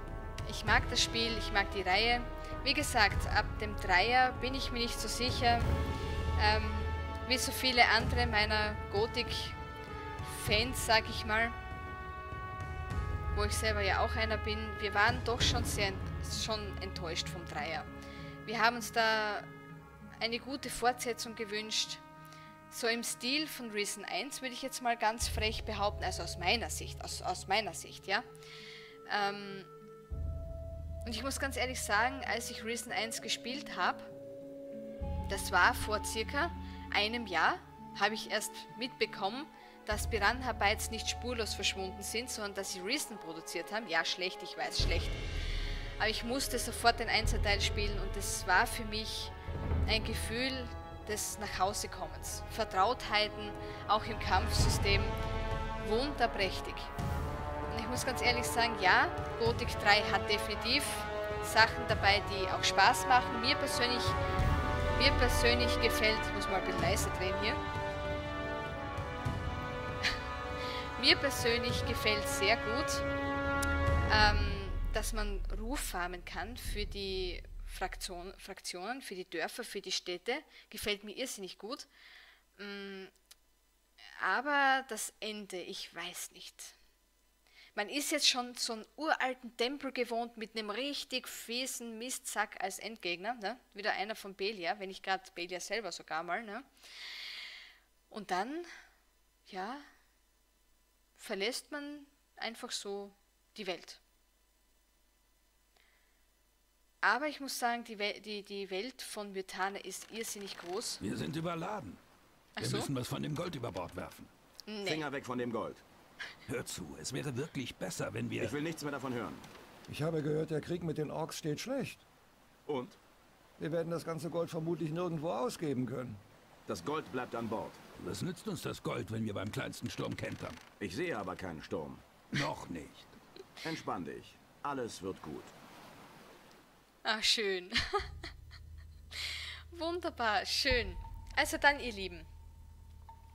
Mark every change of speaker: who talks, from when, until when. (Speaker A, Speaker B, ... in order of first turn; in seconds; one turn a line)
Speaker A: 0.5-5.7
Speaker A: 6.4-9.6
Speaker A: 10.2-11.6
Speaker A: 13.3-17.9
Speaker A: 18.4-19.5
Speaker A: 20.2-22.0
Speaker A: 22.7-28.2
Speaker A: 29.1-29.7
Speaker A: 31.1-34.1
Speaker A: 35.3-45.2
Speaker A: 46.0-49.3
Speaker A: 49.9-55.2
Speaker A: 55.8-56.9
Speaker A: 57.7-64.2
Speaker A: 65.0-67.6
Speaker A: 71.0-73.0
Speaker A: 74.1-81.9
Speaker A: 82.6-83.1
Speaker A: 84.2-86.8
Speaker A: 87.8-96.7
Speaker A: 98.1-98.7
Speaker A: 99.5-99.9
Speaker A: 101.2-104.0
Speaker A: 107.0-111.0
Speaker B: 111.0-112.0
Speaker A: 112.6-112.9
Speaker B: 112.6-114.3
Speaker A: 114.7-115.1
Speaker C: 114.8-115.8
Speaker B: 116.5-118.5
Speaker C: 118.4-119.5
Speaker D: 119.9-122.0
Speaker C: 122.7-123.0
Speaker D: 123.6-126.2
Speaker C: 126.7-127.8
Speaker B: 128.0-130.6
Speaker C: 130.8-132.1
Speaker B: 132.3-133.2
Speaker C: 133.6-135.5
Speaker A: 137.1-138.1
Speaker A: 139.2-142.3